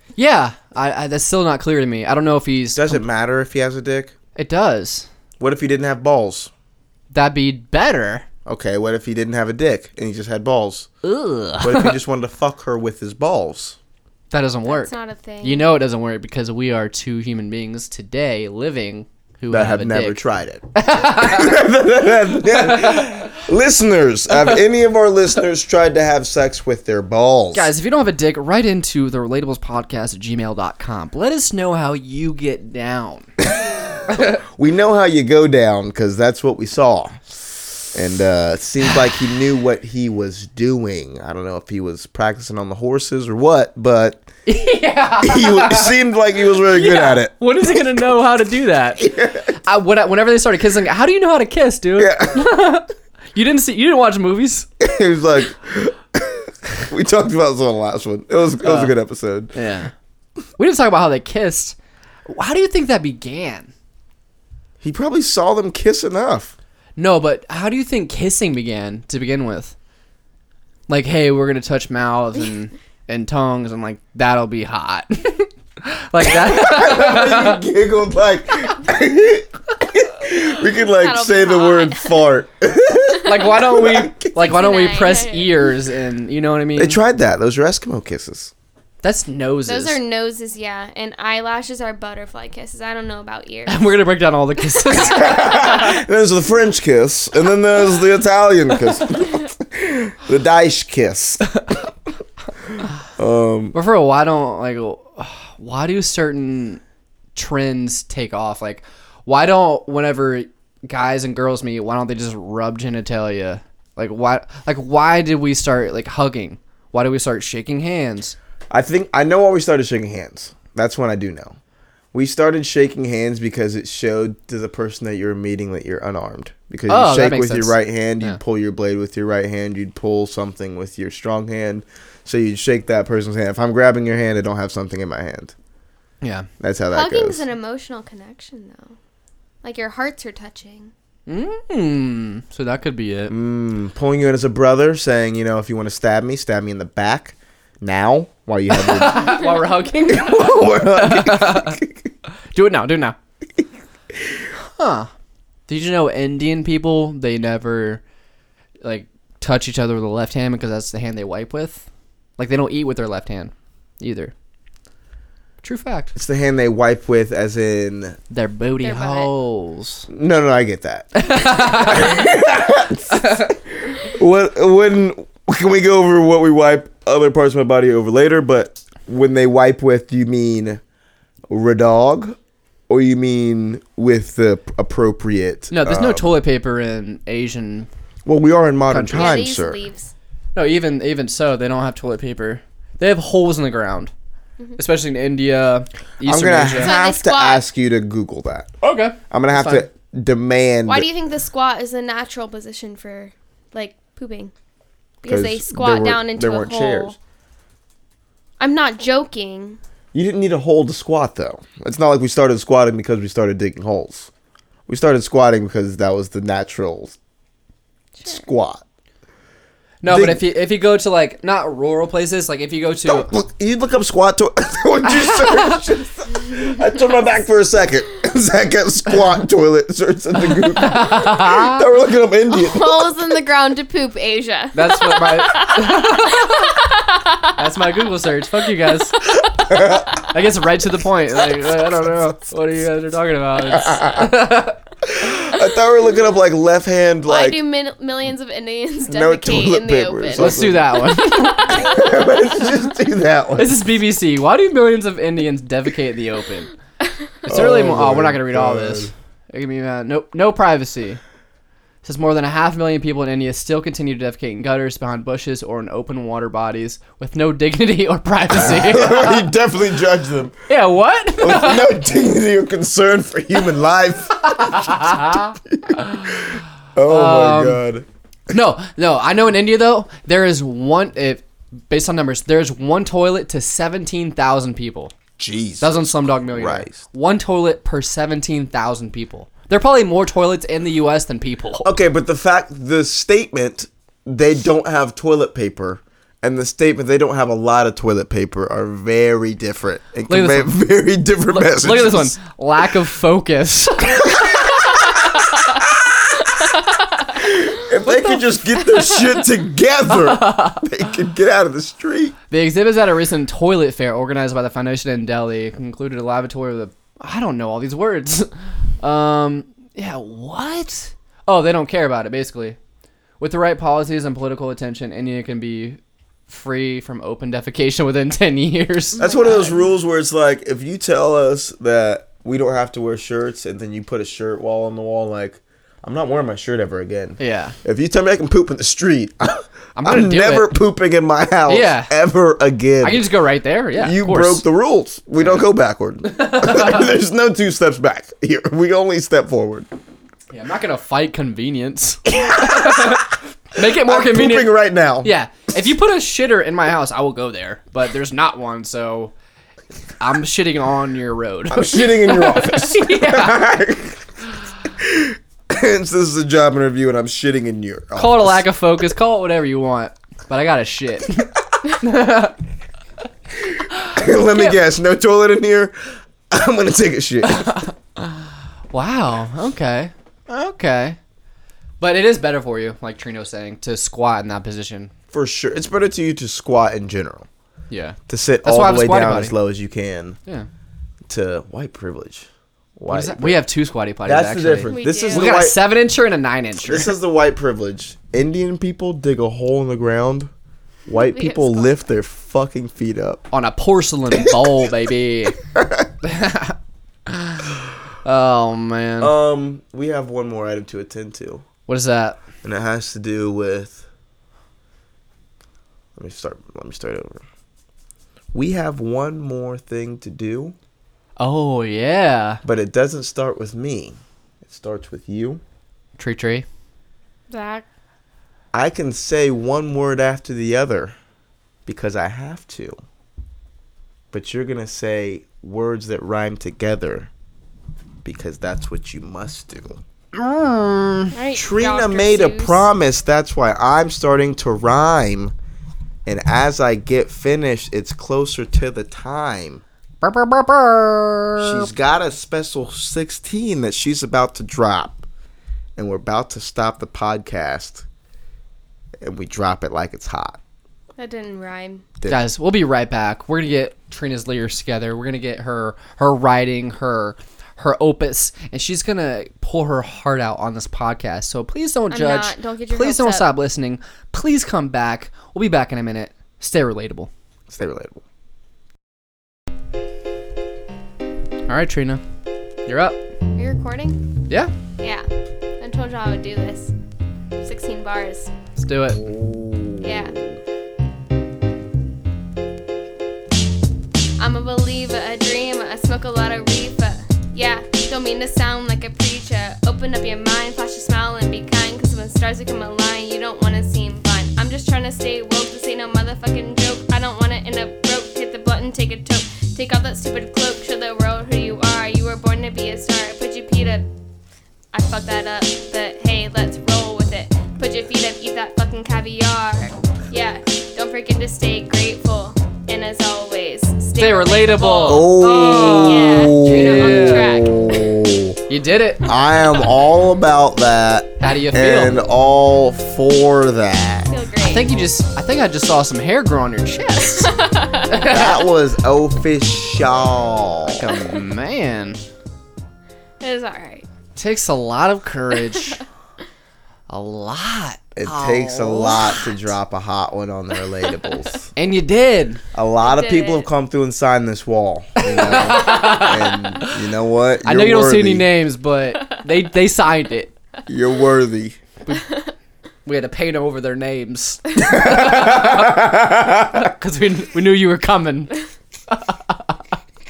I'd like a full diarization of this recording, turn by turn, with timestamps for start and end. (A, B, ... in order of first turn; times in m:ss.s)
0:00.2-0:03.0 A
0:02.8-0:04.1 B
0:04.4-0:05.1 A
0:05.4-0:06.5 B
0:07.1-0:08.2 A
0:08.5-0:10.9 B
0:11.0-0:12.0 A
0:11.6-0:13.8 B
0:14.3-0:20.2 A
0:14.7-0:15.7 C
0:19.5-0:27.7 B
0:20.8-0:21.6 A
0:22.6-0:23.1 A
0:27.5-0:33.3 A
0:33.4-0:37.2 B
0:37.9-0:44.3 B
0:44.5-0:45.9 A
0:45.2-0:47.3 B
0:46.6-0:49.1 A
0:49.0-0:49.6 B
0:49.6-0:54.7 A
0:52.0-0:52.5 B
0:54.8-0:59.6 B
0:58.6-0:58.9 A
0:59.5-0:59.9 A
1:00.6-1:01.8 A
1:02.3-1:03.7 A
1:04.8-1:06.6 B
1:07.0-1:09.7 A
1:10.9-1:17.6 A
1:16.2-1:24.3 B
1:20.9-1:22.3 C
1:23.2-1:27.0 A
1:24.3-1:25.7 C
1:26.8-1:28.5 B
1:29.0-1:30.0 A
1:29.7-1:33.8 C
1:33.7-1:35.8 A
1:34.9-1:41.6 B
1:42.7-1:43.8 B
1:43.7-1:46.8 A
1:47.4-1:58.4 A
1:58.7-2:01.6 B
2:02.1-2:15.5 B
2:06.9-2:08.4 A
2:16.2-2:16.5 A
2:16.6-2:17.4 B
2:16.9-2:19.0 C
2:19.6-2:20.9 C
2:21.3-2:23.3 A
2:23.3-2:29.4 B
2:28.7-2:31.8 A
2:30.1-2:32.1 B
2:32.5-2:33.2 A
2:34.8-2:35.1 A
2:35.7-2:38.0 A
2:38.8-2:41.8 A
2:42.4-2:44.3 A
2:45.6-2:46.1 A
2:46.2-2:48.2 B
2:48.3-2:50.1 A
2:48.8-2:49.3 C
2:50.1-3:00.8 B
2:51.2-2:52.2 A
2:53.1-2:53.5 A
3:01.5-3:02.4 B
3:02.9-3:06.4 B
3:05.7-3:07.9 A
3:08.3-3:09.8 B
3:08.9-3:09.4 A
3:09.1-3:10.1 C
3:10.6-3:14.1 A
3:14.8-3:17.0 A
3:16.2-3:18.7 B
3:16.8-3:17.6 C
3:18.8-3:19.9 A
3:19.3-3:21.1 B
3:20.9-3:24.5 C
3:25.2-3:27.2 C
3:25.2-3:27.2 B
3:28.6-3:29.8 C
3:30.1-3:34.3 B
3:34.9-3:37.2 B
3:38.3-3:38.8 B
3:40.0-3:43.3 A
3:40.1-3:40.4 B
3:43.1-3:53.1 B
3:45.1-3:45.8 A
3:50.7-3:51.8 A
3:52.5-3:57.5 C
3:54.7-3:56.7 A
3:57.6-4:04.8 A
3:59.6-4:00.1 B
4:03.7-4:04.3 B
4:05.0-4:07.6 B
4:07.3-4:10.6 C
4:09.1-4:10.9 B
4:10.4-4:11.8 A
4:11.3-4:12.0 C
4:11.7-4:13.8 B
4:13.6-4:16.7 A
4:17.5-4:19.1 B
4:17.5-4:21.2 A
4:22.0-4:29.5 A
4:28.5-4:30.6 B
4:30.7-4:31.9 A
4:31.4-4:38.1 B
4:34.4-4:37.8 A
4:38.5-4:45.1 A
4:45.4-4:47.0 B
4:45.8-4:51.9 A
4:51.8-5:02.4 B
5:00.3-5:00.7 A
5:01.5-5:05.0 A
5:04.2-5:05.0 B
5:05.7-5:06.2 B
5:07.4-5:12.4 B
5:08.1-5:08.4 A
5:10.1-5:10.9 A
5:12.5-5:22.8 A
5:23.4-5:29.7 A
5:29.2-5:29.9 C
5:29.2-5:43.3 B
5:37.4-5:37.8 A
5:40.0-5:40.7 A
5:41.7-5:42.1 A
5:43.0-5:44.6 A
5:44.0-5:49.9 B
5:46.2-5:47.1 A
5:50.5-5:59.3 A
5:52.3-5:55.3 B
6:00.2-6:03.6 A
6:01.7-6:04.3 B
6:04.8-6:08.6 B
6:08.2-6:12.6 A
6:13.9-6:14.8 A
6:14.1-6:17.7 B
6:17.5-6:21.2 A
6:22.0-6:25.1 A
6:25.3-6:27.5 B
6:27.9-6:29.5 A
6:28.3-6:30.4 B
6:31.3-6:33.6 B
6:33.1-6:37.1 A
6:34.2-6:35.8 B
6:34.9-6:35.6 C
6:36.8-6:40.5 B
6:41.1-6:43.5 B
6:41.1-6:41.9 C
6:43.5-6:45.6 A
6:45.8-6:46.1 B
6:46.2-6:46.8 A
6:47.3-6:47.7 A
6:48.2-6:49.3 A
6:49.2-6:51.6 B
6:51.9-6:52.4 A
6:52.6-6:54.1 B
6:56.2-6:57.4 B
6:58.5-7:00.8 B
7:01.4-7:02.6 A
7:02.6-7:05.6 B
7:06.2-7:06.7 A
7:07.5-7:07.8 C
7:08.7-7:11.2 B
7:11.9-7:13.0 B
7:14.3-7:17.3 B
7:18.2-7:20.0 B
7:20.3-7:21.3 A
7:21.3-7:22.9 C
7:21.5-7:25.5 B
7:26.3-7:29.8 B
7:30.2-7:31.9 A
7:31.6-7:35.2 B
7:36.0-7:38.0 B
7:39.2-7:40.6 B
7:41.2-7:42.0 C
7:42.3-7:57.3 A
7:52.1-7:53.5 C
7:57.7-7:58.2 B
8:01.7-8:02.2 A
8:02.9-8:03.2 A
8:03.6-8:04.3 C
8:05.0-8:05.3 C
8:05.8-8:06.9 C
8:07.6-8:08.5 C
8:08.8-8:09.2 A
8:09.1-8:10.6 B
8:10.0-8:10.4 C
8:14.4-8:34.1 C
8:34.9-8:48.1 C
8:44.2-8:47.6 A
8:45.0-8:48.6 B
8:48.7-8:49.3 A
8:49.3-8:54.3 B
8:51.4-8:52.2 A
8:54.3-8:55.0 C
8:54.6-8:57.5 A
8:57.2-8:58.6 C
8:58.1-8:58.5 A
8:58.2-9:01.1 B
9:00.9-9:02.2 A
9:03.4-9:04.1 C
9:04.4-9:06.0 A
9:07.1-9:09.4 A
9:08.2-9:11.7 B
9:11.8-9:12.6 A
9:12.7-9:18.5 B
9:13.0-9:13.7 C
9:15.2-9:17.0 A
9:17.6-9:20.5 A
9:20.9-9:21.8 B
9:22.2-9:22.5 C
9:23.1-9:26.0 A
9:24.8-9:26.9 B
9:26.7-9:28.6 A
9:29.1-9:29.8 A